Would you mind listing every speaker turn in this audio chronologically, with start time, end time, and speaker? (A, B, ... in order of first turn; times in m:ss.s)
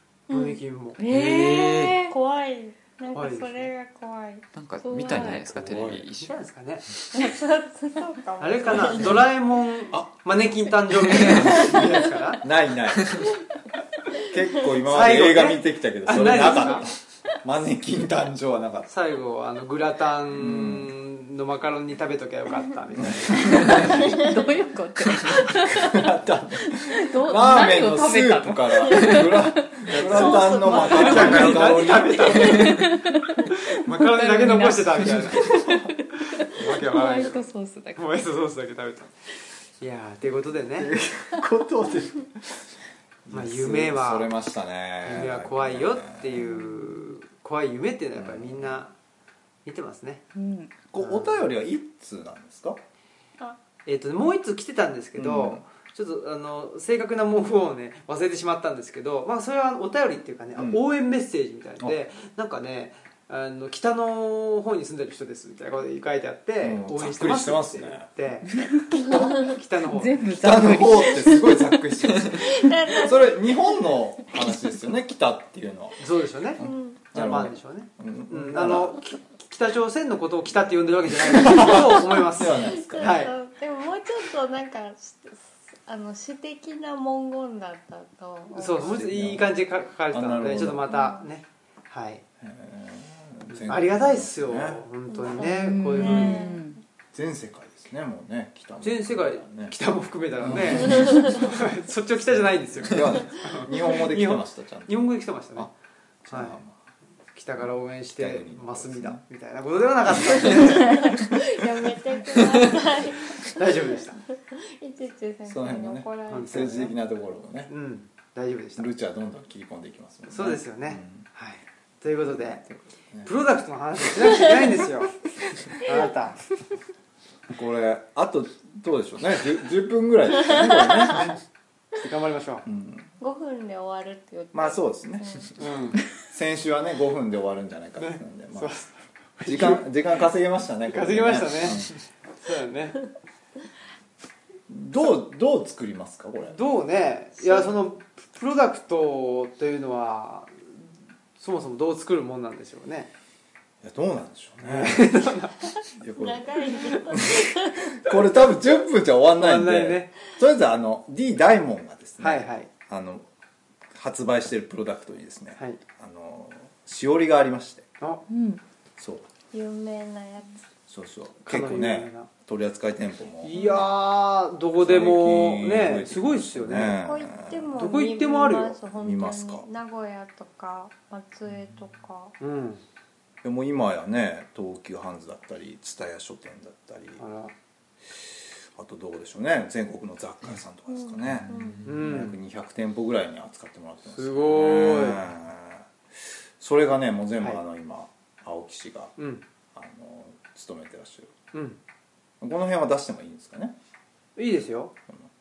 0:00.3-0:00.6 A
0:00.3-0:01.0 B
0:01.0-0:02.1 C
0:01.1-0:02.0 D
0:02.0-0:04.4 A
0:03.1-0:03.7 B
0:04.5-0:06.4 D
0:04.8-0:05.5 C
0:05.5-0:06.0 E
0:06.2-0:06.8 B
0:07.1-0:09.2 A
0:08.4-0:12.4 B
0:08.7-0:09.2 E
0:11.1-0:13.2 E
0:14.3-0:16.9 E
0:14.8-0:16.9 B
0:17.4-0:18.9 E
0:18.9-0:24.1 B
0:20.3-0:20.9 E
0:23.0-0:24.0 E
0:23.4-0:26.1 C
0:25.3-0:32.8 E
0:26.7-0:38.0 C
0:29.9-0:32.9 B
0:30.2-0:31.1 A
0:33.5-0:35.7 B
0:35.4-0:35.9 E
0:36.3-0:39.1 B
0:39.8-0:40.9 B
0:40.8-0:42.5 E
0:43.3-0:46.5 E
0:43.3-0:44.3 B
0:45.0-0:48.9 B
0:46.4-0:47.2 C
0:48.2-0:48.8 E
0:49.6-0:50.2 B
0:50.3-0:50.7 C
0:50.9-0:52.8 E
0:51.0-0:51.4 B
0:53.8-1:10.3 B
0:55.1-0:55.6 E
1:00.6-1:00.8 E
1:06.6-1:08.1 E
1:08.5-1:11.7 C
1:10.3-1:16.0 E
1:12.4-1:13.9 A
1:16.0-1:16.6 B
1:16.6-1:19.0 E
1:16.6-1:17.0 A
1:17.1-1:23.3 B
1:21.3-1:23.2 E
1:22.5-1:29.0 A
1:28.5-1:32.2 B
1:28.8-1:29.5 E
1:30.1-1:30.9 E
1:32.4-1:34.8 E
1:33.5-1:36.5 B
1:35.1-1:36.8 A
1:35.3-1:36.8 C
1:37.1-1:39.7 E
1:38.8-1:45.7 B
1:40.4-1:41.5 E
1:41.0-1:41.3 A
1:42.3-1:45.7 E
1:46.2-1:46.8 E
1:46.3-1:46.6 B
1:47.3-1:51.2 B
1:48.1-1:49.2 E
1:50.4-1:53.8 A
1:53.4-1:54.2 B
1:54.4-1:56.8 A
1:55.4-1:57.7 E
1:56.3-1:56.9 B
1:57.7-1:58.9 B
1:58.8-2:01.2 E
2:00.3-2:02.6 B
2:02.3-2:03.3 E
2:03.2-2:06.4 B
2:07.5-2:11.4 E
2:11.9-2:12.6 B
2:12.6-2:13.1 E
2:13.2-2:15.5 A
2:14.5-2:15.5 E
2:15.6-2:16.0 B
2:16.2-2:18.7 E
2:18.0-2:19.9 B
2:19.4-2:21.9 E
2:20.9-2:23.1 B
2:24.7-2:26.6 E
2:26.4-2:30.5 B
2:27.4-2:27.7 A
2:31.4-2:33.1 B
2:33.8-2:35.1 E
2:34.6-2:35.6 B
2:36.0-2:43.2 E
2:36.2-2:37.9 A
2:39.4-2:40.1 B
2:42.2-2:42.7 B
2:43.9-2:47.9 E
2:48.3-2:48.6 C
2:49.0-2:49.3 E
2:49.5-2:50.6 A
2:50.9-2:53.6 E
2:51.4-2:52.3 B
2:53.4-2:57.0 B
2:54.7-2:57.7 E
2:56.9-3:02.3 A
2:57.7-2:58.8 B
2:59.0-2:59.6 E
3:02.4-3:02.8 B
3:03.4-3:07.2 E
3:07.2-3:07.5 B
3:08.1-3:19.1 E
3:10.9-3:11.8 A
3:11.8-3:12.4 B
3:14.0-3:15.2 B
3:19.2-3:19.4 B
3:19.7-3:21.3 E
3:21.5-3:21.8 B
3:22.4-3:23.8 E
3:24.4-3:25.0 B